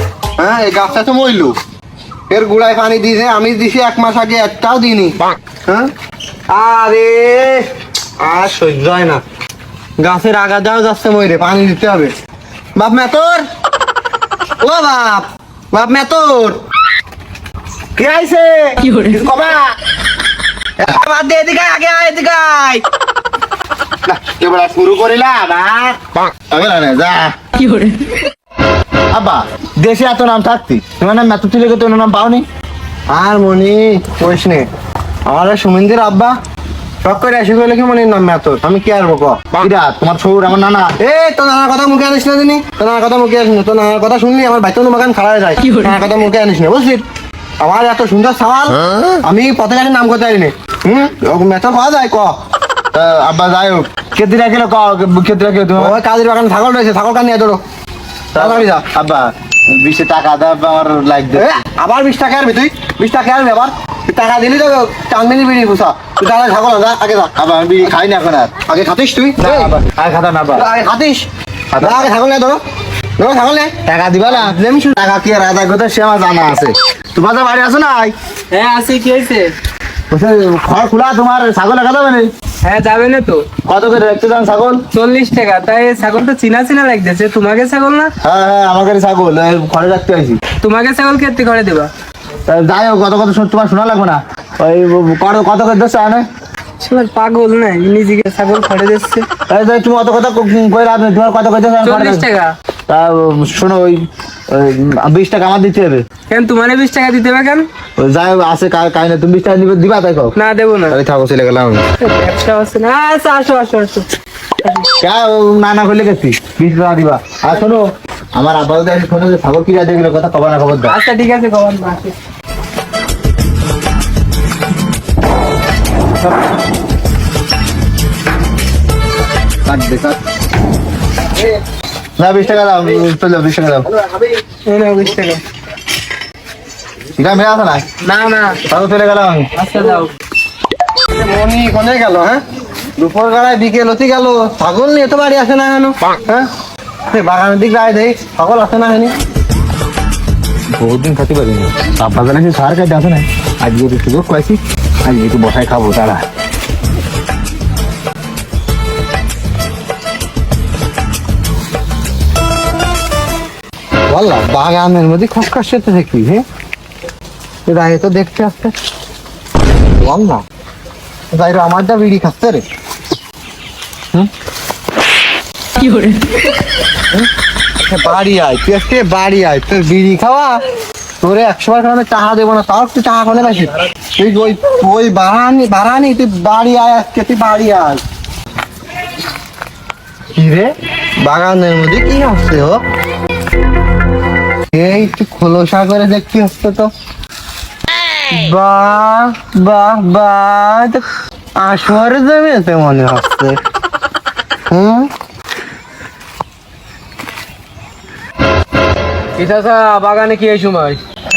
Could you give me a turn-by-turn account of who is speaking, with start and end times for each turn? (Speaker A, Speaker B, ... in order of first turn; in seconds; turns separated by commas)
Speaker A: 0.4-1.6, Speaker A: 2.3-5.9, Speaker A: 6.5-7.6, Speaker A: 8.2-9.2, Speaker A: 10.0-12.1, Speaker A: 12.7-13.4, Speaker A: 14.6-16.6, Speaker B: 18.0-19.6, Speaker A: 20.8-22.8, Speaker B: 24.1-27.3, Speaker B: 29.1-32.5, Speaker A: 33.1-34.7, Speaker A: 35.2-36.3, Speaker A: 37.0-39.5, Speaker B: 39.6-41.0, Speaker A: 41.0-47.0, Speaker A: 47.6-52.4, Speaker B: 52.9-56.0, Speaker A: 55.8-57.6, Speaker A: 58.3-58.9, Speaker B: 58.3-61.5, Speaker A: 61.3-67.3, Speaker B: 67.3-68.6, Speaker A: 68.6-69.7, Speaker B: 69.4-70.6, Speaker A: 70.5-71.3, Speaker B: 71.7-72.1, Speaker A: 71.8-72.6, Speaker A: 73.2-75.0, Speaker B: 73.8-78.1, Speaker C: 78.5-79.5, Speaker B: 80.1-82.3, Speaker C: 82.6-83.4, Speaker B: 83.7-84.8, Speaker C: 84.9-88.1, Speaker B: 88.2-90.4, Speaker C: 90.6-91.9, Speaker B: 92.5-96.2, Speaker C: 96.8-99.2, Speaker B: 99.5-102.2, Speaker C: 101.8-102.5, Speaker B: 102.9-106.0, Speaker C: 106.3-107.7, Speaker B: 108.0-110.3, Speaker C: 110.3-111.0, Speaker B: 110.9-111.8, Speaker C: 112.0-114.1, Speaker B: 115.0-120.9, Speaker C: 120.9-122.1, Speaker B: 129.7-130.2, Speaker B: 132.2-133.9, Speaker C: 134.7-135.4, Speaker B: 137.1-137.8, Speaker C: 138.0-138.6, Speaker B: 138.7-139.5, Speaker C: 139.6-140.1, Speaker A: 141.1-142.4, Speaker A: 143.0-146.5, Speaker A: 147.1-149.1, Speaker B: 150.8-156.2, Speaker A: 164.1-166.4, Speaker A: 167.7-168.7, Speaker A: 170.0-170.4, Speaker A: 171.3-172.6, Speaker A: 177.8-180.6, Speaker A: 181.2-188.0, Speaker A: 190.3-192.8, Speaker A: 194.7-196.9, Speaker A: 198.3-201.0, Speaker A: 201.6-203.6, Speaker A: 204.7-205.1, Speaker C: 209.4-211.0